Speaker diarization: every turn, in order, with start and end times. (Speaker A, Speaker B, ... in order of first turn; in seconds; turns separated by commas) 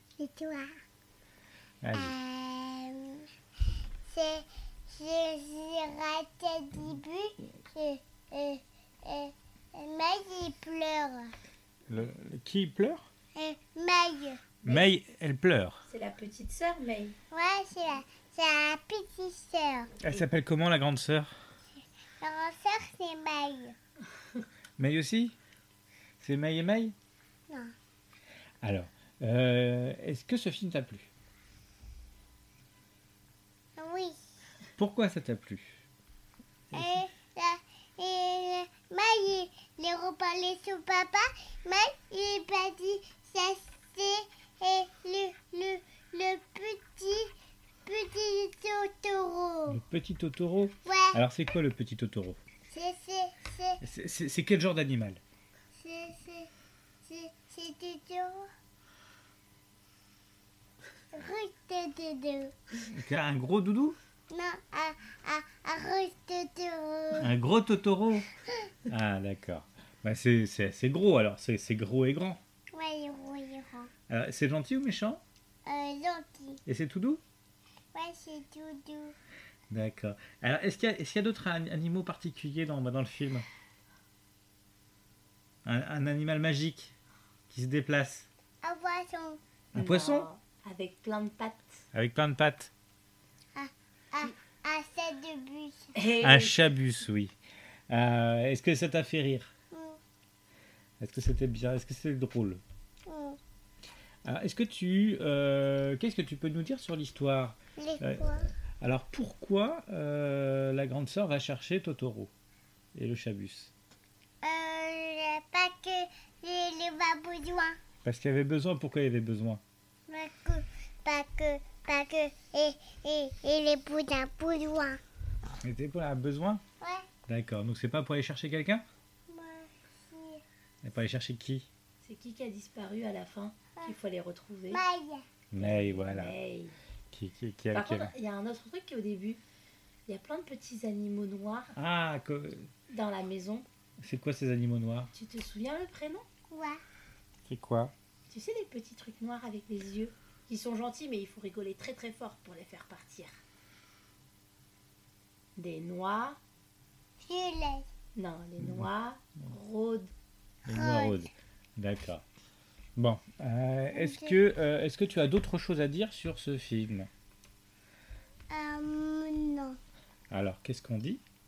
Speaker A: 0.2-0.7, Speaker B: 1.8-2.2, Speaker A: 1.9-3.2, Speaker A: 4.0-11.3, Speaker B: 11.9-13.0, Speaker A: 13.3-14.4, Speaker C: 14.6-14.9, Speaker B: 14.6-15.8, Speaker C: 15.9-17.1, Speaker A: 17.3-19.9, Speaker B: 20.0-21.3, Speaker A: 22.2-23.7, Speaker B: 24.8-25.3, Speaker B: 26.2-26.9, Speaker B: 28.6-31.1, Speaker A: 33.8-34.2, Speaker B: 34.8-35.8, Speaker A: 36.7-47.3, Speaker A: 47.9-49.8, Speaker B: 49.7-52.4, Speaker A: 50.8-51.2, Speaker A: 52.7-53.8, Speaker B: 53.8-55.2, Speaker A: 55.8-56.5, Speaker A: 57.0-58.5, Speaker A: 61.1-62.5, Speaker B: 62.9-64.0, Speaker A: 64.3-67.3, Speaker B: 67.2-68.3, Speaker B: 68.9-72.4, Speaker A: 72.7-73.9, Speaker B: 74.1-75.2, Speaker A: 75.7-76.6, Speaker B: 76.7-77.2, Speaker A: 77.9-79.2, Speaker B: 79.7-83.5, Speaker B: 85.6-86.9, Speaker B: 87.5-88.3, Speaker A: 88.6-89.4, Speaker B: 89.7-90.2, Speaker C: 89.8-91.8, Speaker B: 91.9-92.7, Speaker A: 93.5-95.9, Speaker C: 95.9-96.6, Speaker B: 96.2-97.3, Speaker B: 97.9-99.5, Speaker A: 99.7-100.0, Speaker B: 101.0-102.6, Speaker A: 103.1-103.4, Speaker B: 104.2-108.2, Speaker A: 107.8-108.5, Speaker B: 108.8-112.3, Speaker B: 112.9-113.7, Speaker A: 114.4-117.8, Speaker B: 118.0-119.6, Speaker A: 120.1-125.0, Speaker B: 125.6-126.6, Speaker A: 126.8-127.1, Speaker B: 127.3-128.8, Speaker A: 129.3-130.4, Speaker B: 130.8-131.7, Speaker C: 132.0-134.8, Speaker A: 134.7-135.2, Speaker B: 135.5-136.3, Speaker C: 135.6-136.8, Speaker B: 137.1-138.1, Speaker C: 137.7-139.4, Speaker C: 140.1-141.7, Speaker B: 141.7-142.7, Speaker C: 142.9-143.7, Speaker B: 144.0-145.1, Speaker C: 145.1-146.2, Speaker A: 146.5-146.8, Speaker B: 147.5-147.9, Speaker C: 148.3-153.3, Speaker C: 155.6-156.4, Speaker A: 157.2-157.9, Speaker C: 158.2-160.1, Speaker B: 160.7-162.2, Speaker A: 160.7-161.2, Speaker B: 162.9-167.1, Speaker A: 163.9-164.4, Speaker A: 168.5-169.8, Speaker B: 170.3-171.2